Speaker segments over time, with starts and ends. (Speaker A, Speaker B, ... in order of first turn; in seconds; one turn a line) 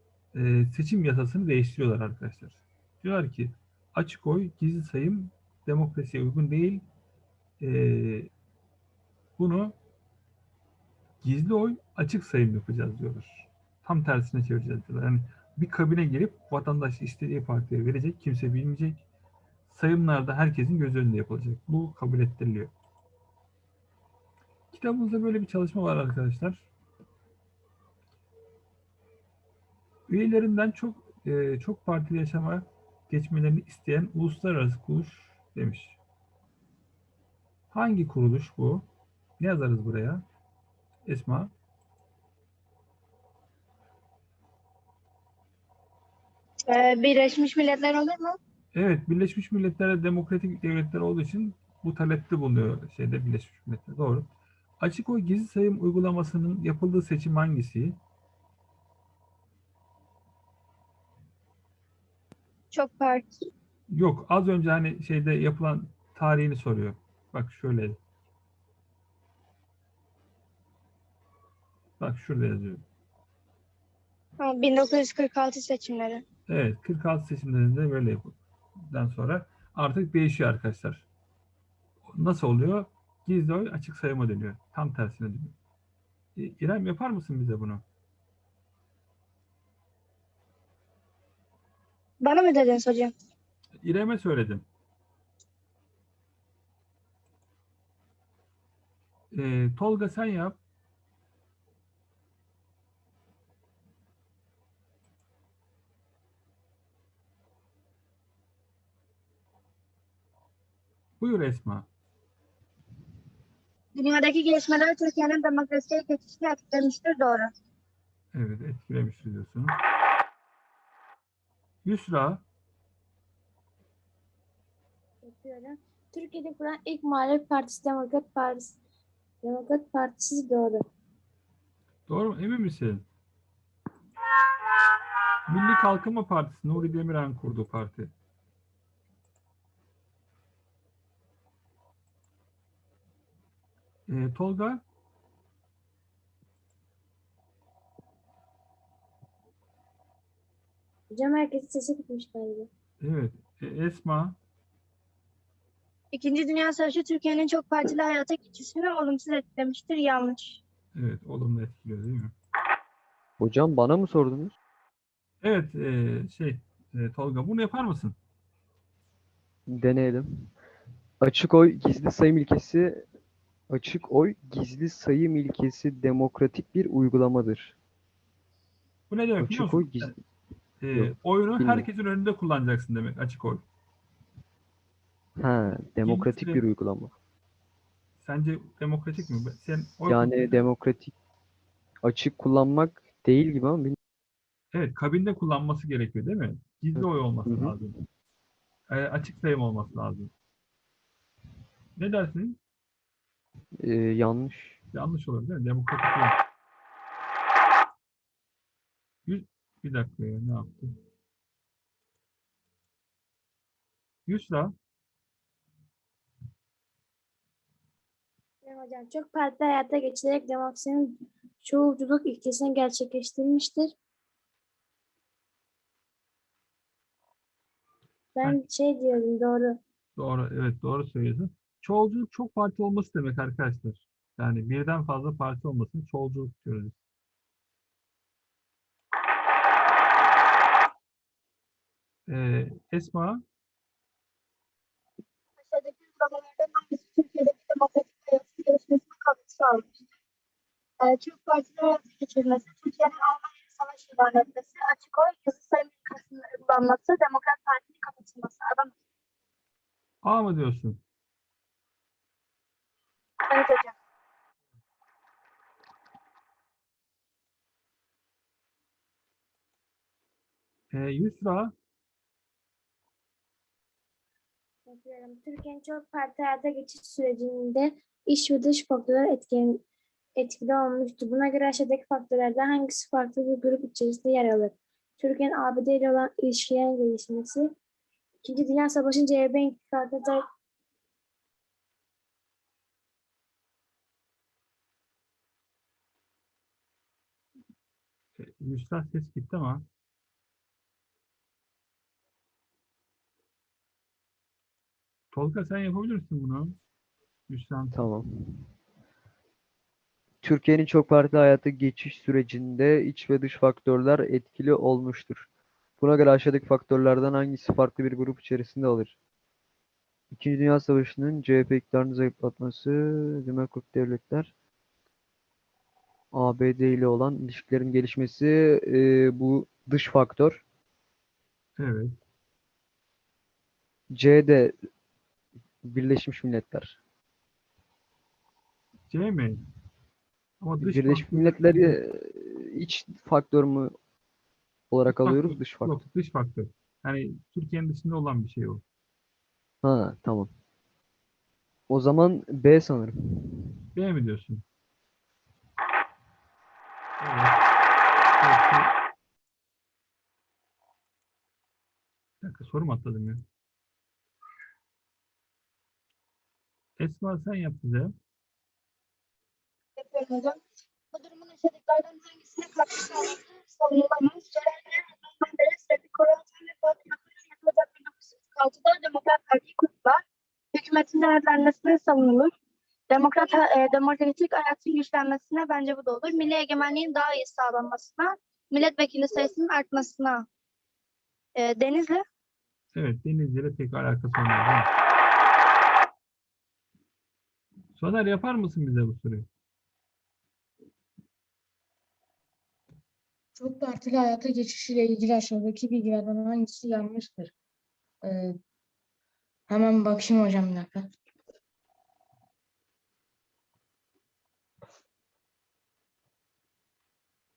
Speaker A: 0.3-6.8
Speaker A: 7.6-8.3
Speaker A: 9.4-9.8
Speaker A: 11.2-19.0
Speaker A: 19.7-22.7
Speaker A: 24.7-26.7
Speaker A: 30.1-36.0
Speaker A: 37.7-38.9
Speaker A: 39.4-40.2
Speaker A: 41.1-41.5
Speaker B: 46.7-48.4
Speaker A: 48.7-54.3
Speaker A: 54.8-58.0
Speaker B: 62.7-63.3
Speaker A: 63.9-68.0
Speaker A: 72.0-72.8
Speaker B: 74.4-76.2
Speaker A: 76.5-81.1
Speaker A: 82.1-85.5
Speaker A: 86.4-87.8
Speaker B: 92.2-93.1
Speaker A: 93.8-94.7
Speaker A: 99.3-100.6
Speaker A: 111.2-111.9
Speaker B: 114.0-117.5
Speaker A: 118.3-119.7
Speaker A: 121.8-122.4
Speaker C: 125.2-128.8
Speaker C: 129.4-130.8
Speaker A: 132.1-133.1
Speaker A: 135.5-138.1
Speaker A: 144.1-144.8
Speaker C: 151.1-152.7
Speaker A: 153.0-154.4
Speaker B: 156.1-160.6
Speaker A: 160.9-162.3
Speaker D: 163.4-164.6
Speaker A: 165.4-168.2
Speaker D: 169.7-170.5
Speaker D: 171.2-173.0
Speaker D: 173.7-177.8
Speaker A: 179.1-180.2
Speaker D: 179.4-180.2
Speaker A: 180.8-183.6
Speaker D: 180.9-181.9
Speaker D: 185.4-187.1
Speaker A: 186.0-186.6
Speaker A: 188.2-190.6
Speaker D: 190.1-191.1
Speaker D: 192.0-194.0
Speaker A: 194.7-198.0
Speaker D: 197.0-197.8
Speaker A: 198.9-200.3
Speaker A: 202.0-202.6
Speaker D: 203.8-204.8
Speaker A: 204.9-206.4
Speaker A: 209.3-210.9
Speaker A: 214.3-214.7
Speaker C: 218.6-223.9
Speaker C: 228.3-229.8
Speaker A: 230.2-237.0
Speaker A: 242.3-243.4
Speaker B: 245.7-249.9
Speaker B: 251.0-259.0
Speaker A: 260.2-261.0
Speaker B: 263.5-263.9
Speaker A: 270.9-271.7
Speaker C: 274.9-279.9
Speaker C: 280.4-287.7
Speaker C: 288.4-290.4
Speaker A: 298.4-299.9
Speaker A: 305.3-306.8
Speaker A: 307.5-308.0
Speaker D: 307.9-308.7
Speaker D: 310.4-315.5
Speaker D: 316.0-319.1
Speaker D: 320.3-324.5
Speaker D: 326.3-330.6
Speaker A: 331.8-332.1
Speaker D: 334.1-334.8
Speaker D: 335.8-337.0
Speaker A: 339.1-339.6
Speaker A: 340.6-342.0
Speaker D: 340.8-343.9
Speaker D: 344.9-346.0
Speaker A: 345.1-348.8
Speaker D: 349.8-350.5
Speaker D: 351.9-353.8
Speaker A: 353.9-354.6
Speaker A: 357.2-357.6
Speaker A: 358.4-358.9
Speaker A: 362.4-363.4
Speaker A: 367.0-368.1
Speaker B: 370.0-370.6
Speaker B: 371.1-380.2
Speaker B: 380.7-382.5
Speaker B: 383.1-390.5
Speaker B: 391.6-392.2
Speaker A: 392.9-394.9
Speaker A: 398.0-399.5
Speaker E: 403.6-407.5
Speaker E: 408.2-408.5
Speaker E: 409.7-411.1